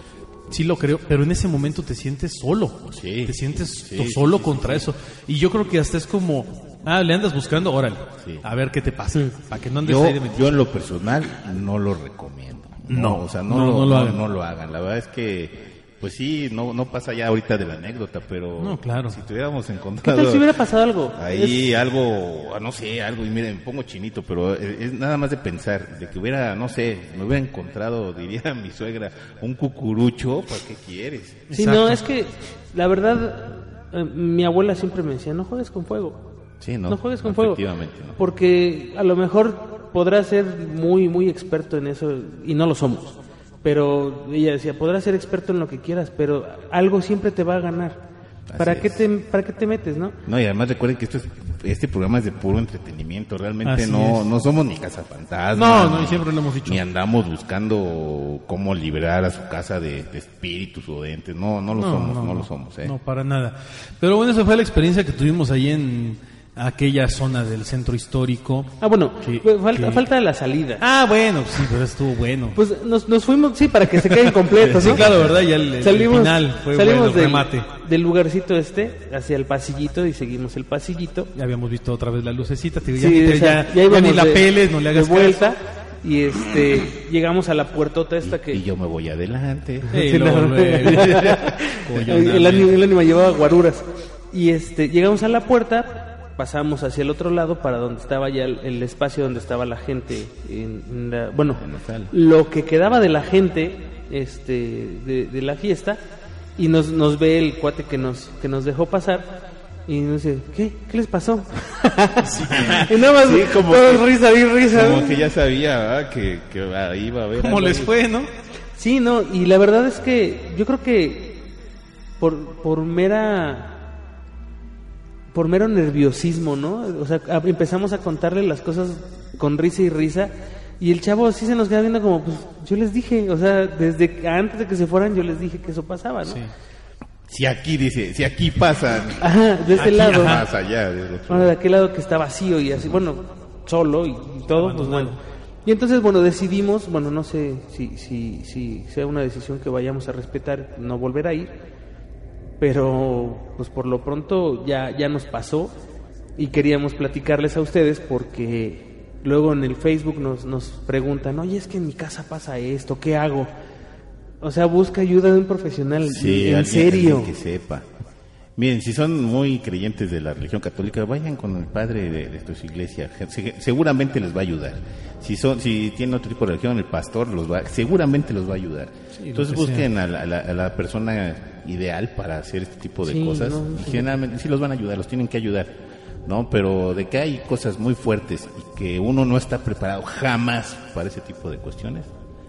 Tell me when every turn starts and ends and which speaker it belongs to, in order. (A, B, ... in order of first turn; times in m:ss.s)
0:00.5-0:10.5 A
0:02.9-0:04.9 B
0:09.8-0:20.5 B
0:12.9-0:14.2 A
0:18.6-0:19.2 A
0:20.0-0:21.6 C
0:21.1-0:31.5 B
0:31.5-0:32.0 A
0:31.5-0:36.2 C
0:36.6-0:38.2 B
0:36.9-0:37.6 C
0:38.2-0:48.0 C
0:48.5-0:49.0 B
0:48.6-0:50.2 C
0:50.2-1:03.0 B
0:53.6-0:54.3 A
0:55.5-0:56.8 A
1:01.8-1:10.0 A
1:08.8-1:10.8 C
1:10.8-1:12.6 A
1:12.5-1:15.1 C
1:14.0-1:17.7 A
1:14.8-1:15.4 B
1:15.8-1:21.3 C
1:21.3-1:25.4 A
1:23.0-1:28.6 C
1:28.2-1:29.9 B
1:29.9-1:46.0 C
1:29.9-1:32.8 A
1:41.5-1:42.1 B
1:46.6-1:55.3 C
1:52.2-1:53.0 A
1:52.5-1:57.9 B
1:57.4-1:58.3 A
1:58.7-2:01.5 C
2:02.2-2:03.8 C
2:05.3-2:16.4 C
2:16.2-2:16.5 A
2:17.3-2:21.5 B
2:19.2-2:20.4 C
2:19.8-2:20.4 A
2:21.3-2:31.5 C
2:24.6-2:25.2 A
2:32.6-2:35.7 C
2:36.4-2:43.5 C
2:44.4-2:47.3 C
2:46.0-2:47.9 B
2:48.6-3:05.7 B
2:59.2-2:59.9 A
3:03.0-3:04.1 C
3:06.2-3:12.1 B